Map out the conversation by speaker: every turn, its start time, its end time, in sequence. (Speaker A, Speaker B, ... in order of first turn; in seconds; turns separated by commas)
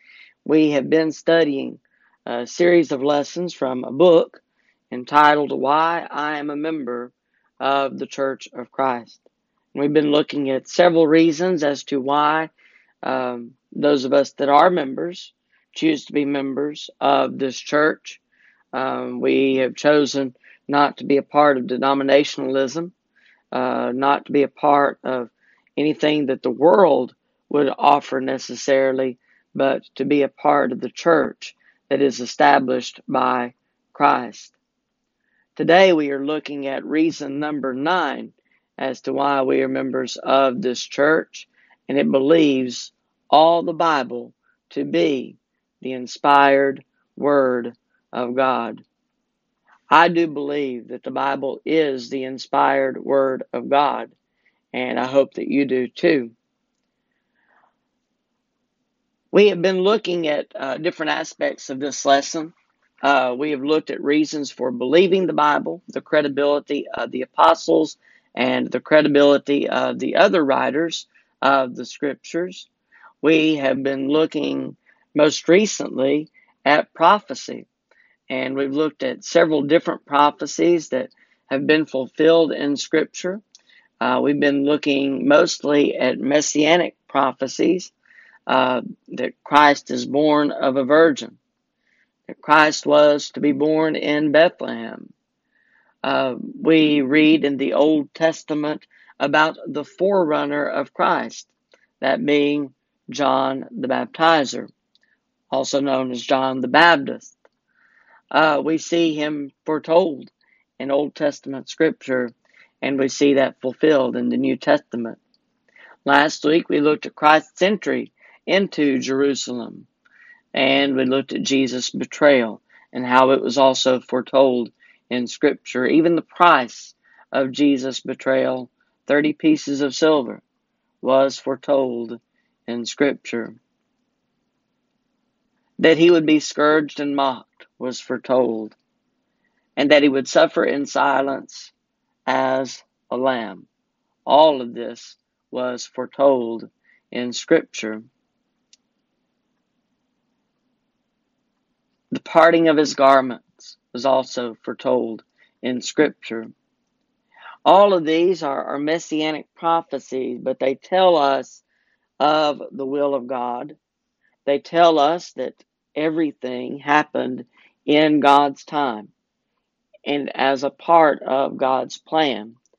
Speaker A: 0.4-9.2, Speaker A: 9.7-12.5, Speaker A: 13.0-18.2, Speaker A: 18.7-22.9, Speaker A: 23.5-34.5, Speaker A: 35.5-48.8, Speaker A: 49.9-54.1, Speaker A: 54.7-56.3, Speaker A: 59.3-72.7, Speaker A: 73.2-77.7, Speaker A: 78.3-83.4, Speaker A: 84.0-87.9, Speaker A: 88.5-91.4, Speaker A: 92.3-95.1, Speaker A: 96.0-104.7, Speaker A: 105.5-107.3, Speaker A: 108.3-115.2, Speaker A: 116.0-119.9, Speaker A: 120.5-130.4, Speaker A: 131.0-133.6, Speaker A: 135.8-138.8, Speaker A: 139.8-141.7, Speaker A: 142.3-143.7, Speaker A: 144.2-148.1, Speaker A: 152.1-156.5, Speaker A: 157.7-161.6, Speaker A: 162.2-163.8, Speaker A: 164.4-169.1, Speaker A: 170.1-172.6